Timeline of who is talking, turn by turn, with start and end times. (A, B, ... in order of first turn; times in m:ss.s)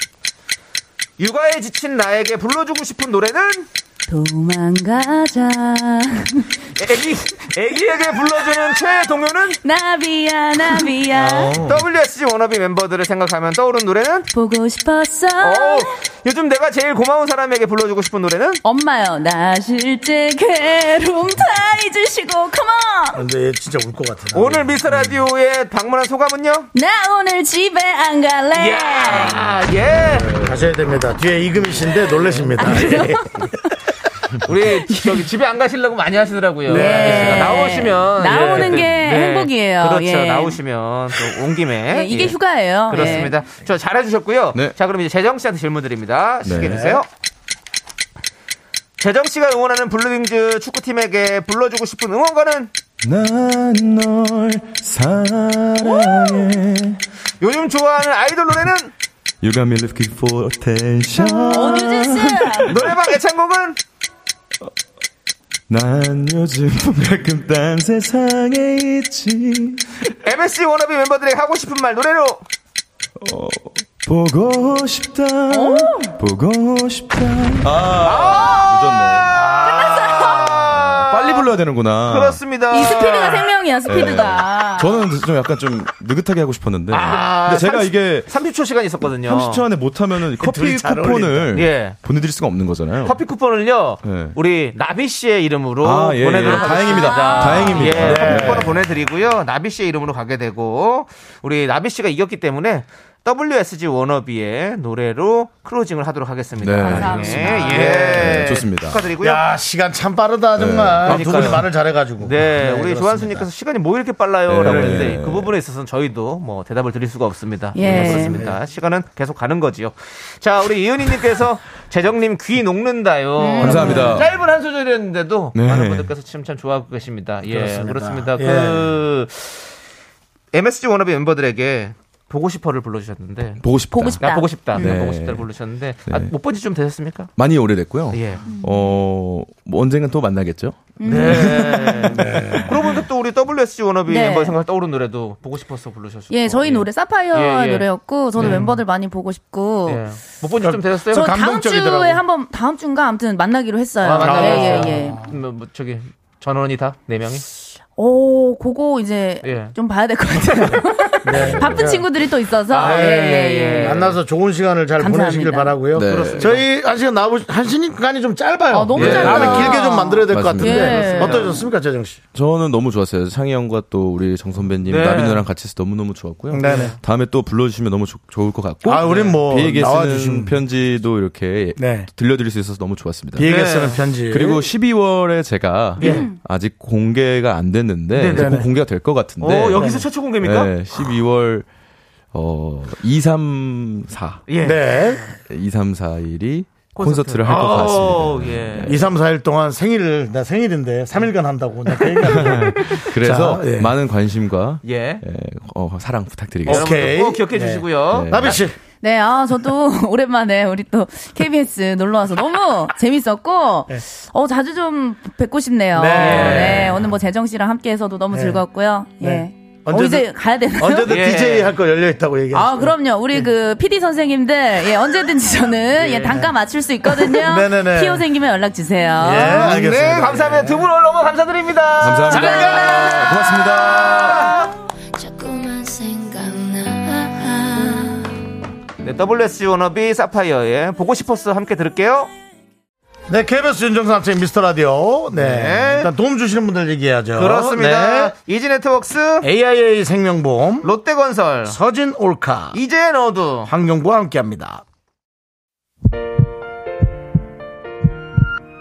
0:01.2-0:03.7 A
0:04.1-0:06.5 B
0:06.8-0:09.6 A
0:09.6-0:11.6 B
0:11.1-0:11.8 C
0:11.6-0:14.3 A
0:14.3-0:16.0 B
0:15.4-0:18.6 A
0:18.6-0:23.2 B
0:23.1-0:24.8 C
0:24.3-0:26.7 A
0:26.7-0:29.5 B
0:28.5-0:30.5 A
0:30.3-0:33.5 C
0:32.1-0:32.5 A
0:32.6-0:33.5 B
0:34.4-0:47.1 A
0:34.9-0:35.2 B
0:36.7-0:40.6 B
0:36.9-0:37.4 C
0:41.8-0:43.4 B
0:46.4-0:47.0 D
0:49.0-0:52.7 A
0:53.0-0:57.0 D
0:55.8-0:56.5 B
0:57.4-0:58.9 A
0:59.4-1:03.1 D
1:01.2-1:02.8 B
1:02.7-1:03.8 A
1:05.7-1:10.1 D
1:10.2-1:12.4 A
1:13.2-1:19.3 D
1:15.5-1:16.2 B
1:18.0-1:21.5 A
1:19.4-1:20.4 C
1:19.6-1:20.6 B
1:20.7-1:22.4 D
1:22.1-1:23.5 A
1:22.7-1:25.1 B
1:23.9-1:28.3 D
1:26.9-1:29.6 A
1:27.0-1:27.7 C
1:29.2-1:33.2 D
1:30.4-1:31.5 C
1:31.5-1:32.0 A
1:33.0-1:49.4 A
1:34.0-1:34.4 D
1:35.8-1:38.8 D
1:36.4-1:38.2 B
1:38.0-1:38.8 C
1:46.6-1:49.1 D
1:46.8-1:48.3 B
1:47.7-1:48.3 C
1:49.2-1:53.4 C
1:50.6-1:51.7 D
1:51.0-1:51.7 A
1:52.2-2:09.7 A
1:54.5-1:55.5 D
1:54.6-1:55.1 C
1:57.8-1:58.5 B
1:57.9-1:58.6 C
2:03.4-2:04.2 B
2:03.6-2:04.3 D
2:05.5-2:06.1 D
2:07.5-2:08.9 C
2:10.5-2:13.6 A
2:13.6-2:15.5 D
2:13.9-2:15.1 B
2:14.2-2:17.3 A
2:17.4-2:21.8 D
2:18.1-2:18.4 A
2:18.5-2:18.9 B
2:21.0-2:22.2 B
2:21.0-2:28.7 A
2:22.1-2:22.8 C
2:24.1-2:24.6 B
2:26.3-2:30.0 B
2:28.4-2:28.8 C
2:29.9-2:31.4 A
2:30.6-2:32.2 C
2:31.1-2:35.3 B
2:34.0-2:37.5 A
2:34.2-2:35.3 C
2:38.0-2:44.1 B
2:39.4-2:39.8 A
2:41.2-2:42.0 C
2:41.3-2:42.0 D
2:42.7-2:44.2 A
2:42.7-2:52.2 C
2:45.0-2:45.8 B
2:45.9-2:46.5 D
2:46.1-2:46.7 A
2:48.7-2:51.7 B
2:49.0-2:49.6 A
2:49.0-2:51.2 D
2:51.0-2:51.5 A
2:52.3-3:03.8 D
2:54.8-2:55.4 A
2:56.5-2:56.9 C
2:56.6-2:57.0 A
2:58.8-3:00.6 C
2:59.0-2:59.4 A
3:01.8-3:02.1 C
3:03.4-3:04.7 C
3:03.4-3:04.0 A
3:04.3-3:11.7 D
3:06.0-3:06.3 A
3:06.0-3:06.3 C
3:06.0-3:06.4 B
3:08.1-3:08.6 A
3:08.2-3:08.7 C
3:09.4-3:10.7 A
3:09.8-3:10.0 C
3:12.3-3:14.4 D
3:14.5-3:15.3 A
3:14.6-3:15.2 C
3:15.4-3:19.1 D
3:16.9-3:19.0 A
3:18.8-3:23.9 C
3:22.0-3:23.0 A
3:22.3-3:27.1 D
3:24.8-3:25.2 A
3:26.6-3:28.7 C
3:26.7-3:28.6 A
3:28.1-3:28.6 D
3:29.0-3:41.2 B
3:35.9-3:37.0 C
3:36.2-3:37.0 A
3:38.3-3:38.6 C
3:39.2-3:43.5 C
3:41.1-3:41.7 A
3:42.5-3:49.9 B
3:46.0-3:46.4 A
3:47.2-3:48.3 C
3:49.2-3:50.9 C
3:49.3-3:53.2 A
3:52.0-3:54.5 D
3:52.3-3:53.7 B
3:53.8-3:54.3 E
3:53.9-3:54.7 A
3:55.2-3:58.3 E
3:59.0-4:02.3 A
4:03.3-4:08.3 C
4:05.3-4:06.1 A
4:07.3-4:09.5 A
4:09.4-4:10.9 C
4:10.8-4:11.8 A
4:11.6-4:12.8 C
4:12.7-4:13.7 A
4:13.7-4:14.8 C